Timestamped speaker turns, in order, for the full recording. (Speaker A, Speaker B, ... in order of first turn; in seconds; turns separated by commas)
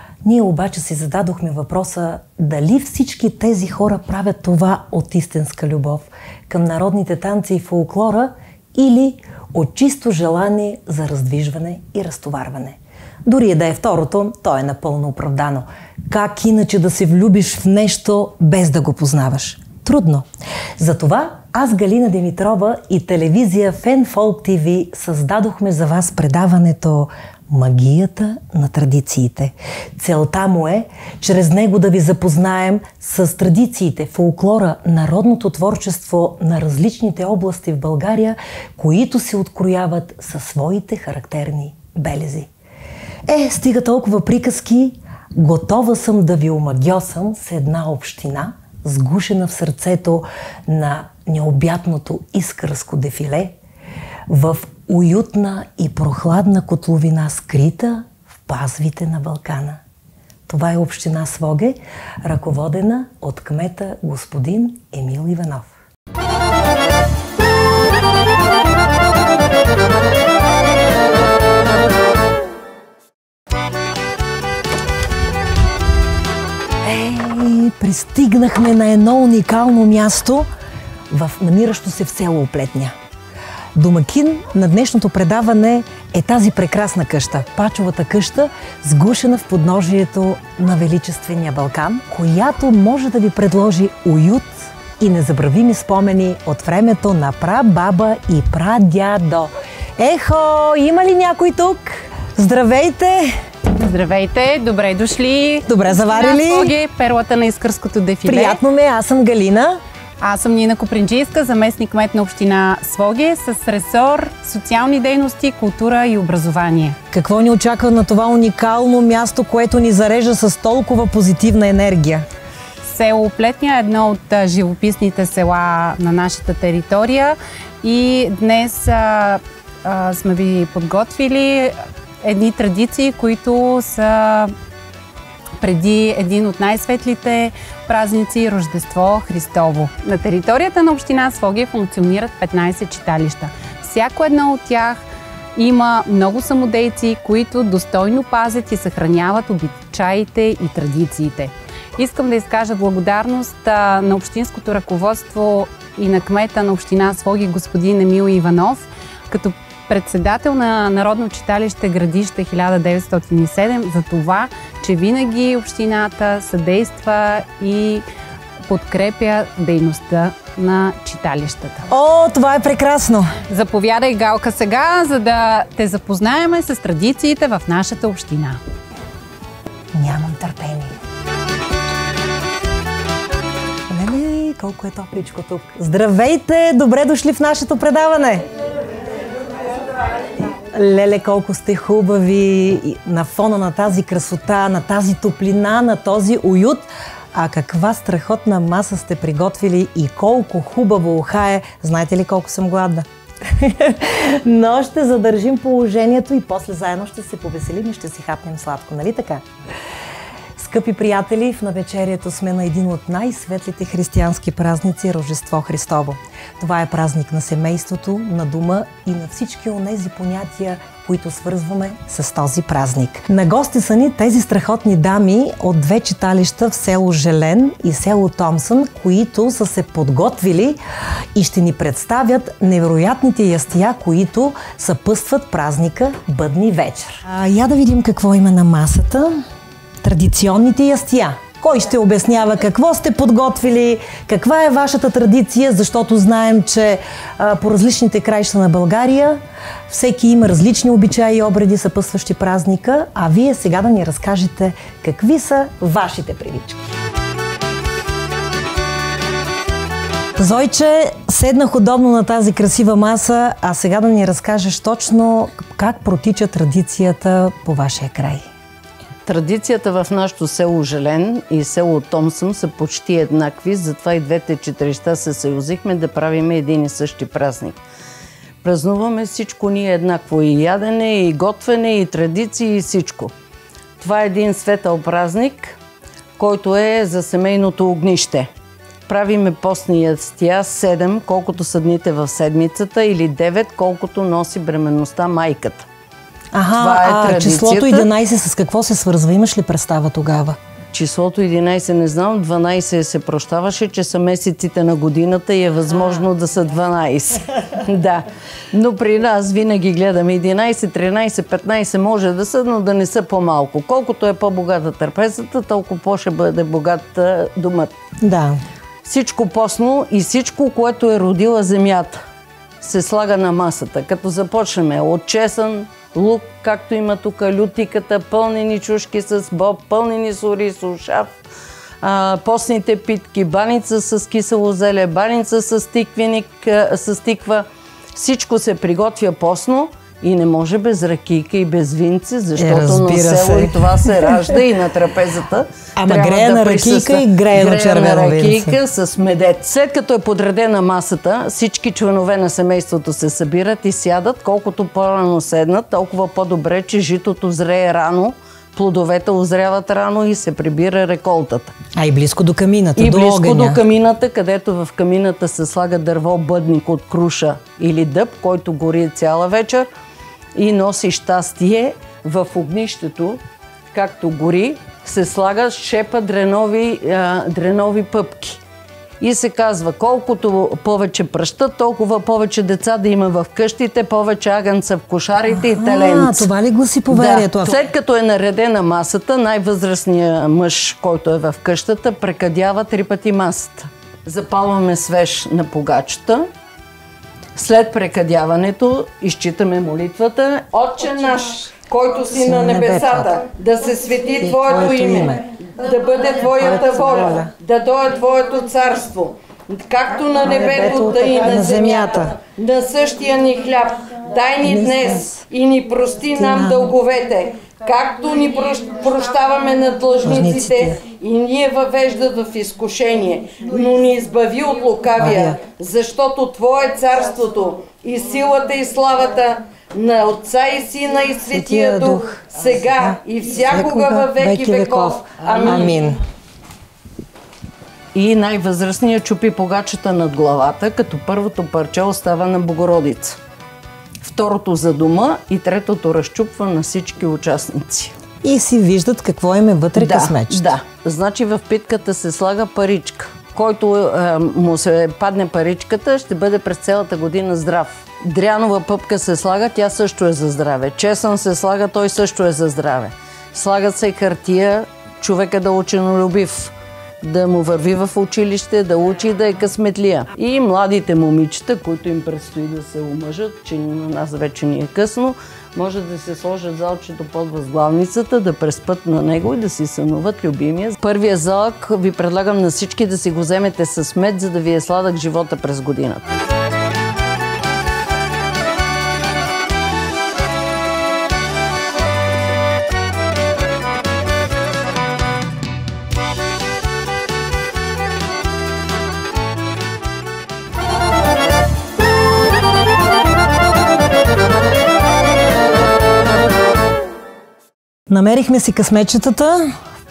Speaker A: 0.2-20.2, Speaker A: 20.8-42.5, Speaker A: 43.3-53.5, Speaker A: 54.3-59.8, Speaker A: 60.5-65.7, Speaker A: 76.8-80.5, Speaker A: 81.1-82.9, Speaker A: 83.7-103.3, Speaker B: 103.7-108.6, Speaker A: 105.7-106.7, Speaker A: 108.2-109.8, Speaker B: 110.2-117.0, Speaker A: 117.1-122.2, Speaker B: 122.8-134.5, Speaker B: 135.6-145.0, Speaker B: 145.6-168.1, Speaker B: 168.6-171.8, Speaker A: 171.9-173.3, Speaker B: 173.5-178.6, Speaker A: 179.9-180.9, Speaker A: 183.9-188.4, Speaker A: 190.5-209.4, Speaker A: 210.6-230.8, Speaker A: 231.3-239.4, Speaker A: 240.0-256.9, Speaker A: 260.4-268.5, Speaker C: 269.2-277.8, Speaker C: 278.6-283.3, Speaker C: 284.0-285.8, Speaker C: 286.4-288.5, Speaker C: 289.1-295.9, Speaker A: 296.5-300.6, Speaker C: 296.8-298.1, Speaker C: 300.9-317.9, Speaker A: 318.2-318.6, Speaker C: 319.0-322.2, Speaker C: 322.8-331.4, Speaker C: 332.0-361.8, Speaker A: 342.6-344.6, Speaker A: 345.9-348.8, Speaker A: 361.9-363.8, Speaker C: 363.0-369.9, Speaker C: 370.5-373.4, Speaker C: 373.9-378.6, Speaker C: 379.2-386.5, Speaker A: 385.5-387.8, Speaker C: 387.1-396.4, Speaker C: 397.5-436.1, Speaker A: 402.3-403.4, Speaker A: 404.4-405.4, Speaker A: 406.4-407.5, Speaker A: 410.4-412.4, Speaker A: 414.6-415.4, Speaker A: 416.3-416.9, Speaker A: 420.2-421.0, Speaker A: 425.2-425.6, Speaker A: 431.5-436.2, Speaker C: 438.1-443.4, Speaker C: 444.2-448.1, Speaker A: 448.4-450.7, Speaker C: 449.9-486.3, Speaker A: 508.1-509.7